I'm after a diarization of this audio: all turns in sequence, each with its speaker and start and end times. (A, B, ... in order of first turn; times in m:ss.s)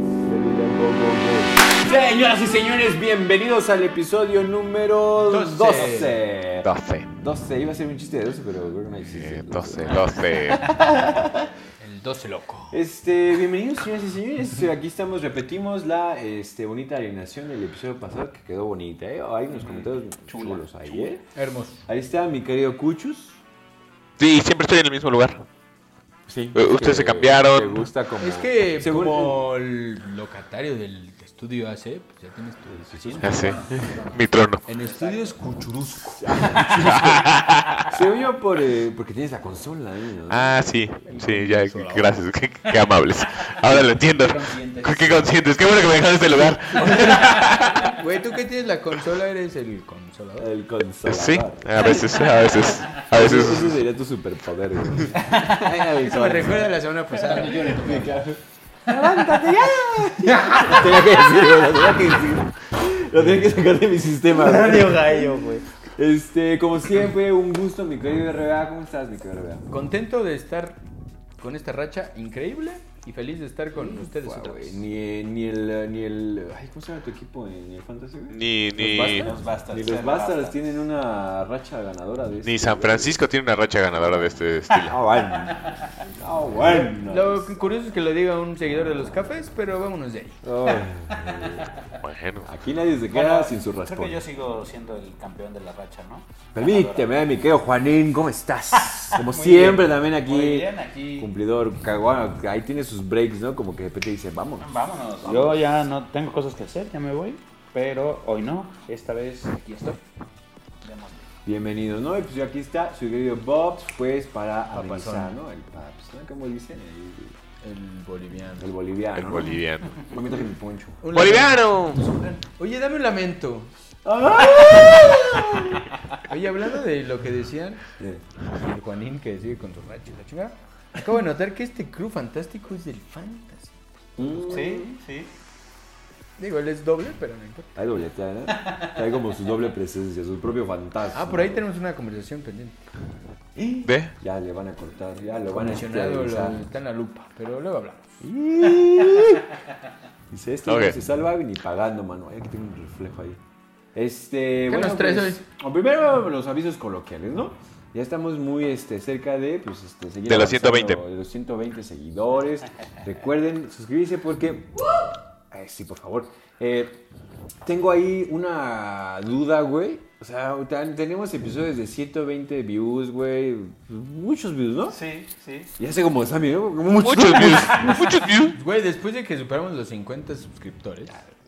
0:00.2-0:10.1 A
0:05.2-0:06.2 B
0:06.6-0:07.1 C
0:09.1-0:10.7 C
0:10.7-0:11.5 A
0:11.8-0:12.8 B
0:12.7-0:21.2 A
0:19.5-0:21.2 D
0:21.3-0:21.8 B
0:21.9-0:23.4 A
0:24.2-0:25.4 C
0:26.3-0:29.4 A
0:26.5-0:27.9 C
0:28.2-0:33.6 B
0:32.8-0:33.5 A
0:33.1-0:34.2 D
0:33.2-0:34.7 C
0:34.6-0:36.6 B
0:34.8-0:35.4 D
0:36.1-0:37.2 A
0:36.7-0:38.0 C
0:37.9-0:40.7 A
0:40.3-0:48.0 C
0:41.1-0:42.2 B
0:43.6-0:45.3 D
0:46.8-0:47.3 A
0:47.1-0:50.5 B
0:50.4-0:51.8 A
0:51.0-0:53.8 C
0:52.0-0:52.8 D
0:53.1-0:56.7 A
0:55.1-0:56.6 D
0:56.0-0:58.2 B
0:57.1-0:58.3 D
0:57.8-0:58.4 A
0:58.9-1:02.2 D
0:58.9-1:09.6 A
1:04.3-1:05.6 D
1:09.7-1:10.8 B
1:11.4-1:14.8 B
1:13.7-1:19.1 A
1:18.3-1:19.3 C
1:18.8-1:19.3 B
1:18.9-1:20.8 D
1:19.7-1:23.2 A
1:22.4-1:25.0 C
1:24.8-1:27.5 A
1:27.0-1:30.4 B
1:30.4-1:31.7 A
1:31.2-1:31.6 D
1:32.0-1:32.5 C
1:32.4-1:34.2 A
1:33.1-1:37.1 D
1:36.5-1:44.7 A
1:38.9-1:41.3 D
1:44.6-1:50.0 D
1:45.2-1:45.6 A
1:50.8-1:51.3 D
1:51.4-1:57.3 A
1:54.7-1:55.4 B
1:57.6-1:58.7 B
1:58.6-2:01.0 A
1:59.1-2:00.0 C
2:01.0-2:01.8 B
2:01.1-2:02.0 C
2:01.9-2:02.4 D
2:02.6-2:03.7 B
2:04.0-2:05.8 A
2:06.3-2:07.8 B
2:08.0-2:08.2 A
2:08.4-2:14.5 B
2:14.2-2:15.0 A
2:14.5-2:15.3 D
2:16.4-2:17.7 B
2:17.8-2:21.6 A
2:21.1-2:22.8 B
2:23.5-2:26.6 A
2:23.8-2:24.1 C
2:25.5-2:28.2 B
2:28.2-2:29.4 A
2:30.3-2:33.4 A
2:30.6-2:30.9 C
2:33.9-2:44.7 A
2:34.7-2:35.4 B
2:40.3-2:41.0 C
2:45.5-2:47.0 A
2:47.6-2:55.0 A
2:54.9-2:55.7 D
2:55.8-2:58.1 A
2:57.0-2:58.6 C
2:58.5-3:01.3 B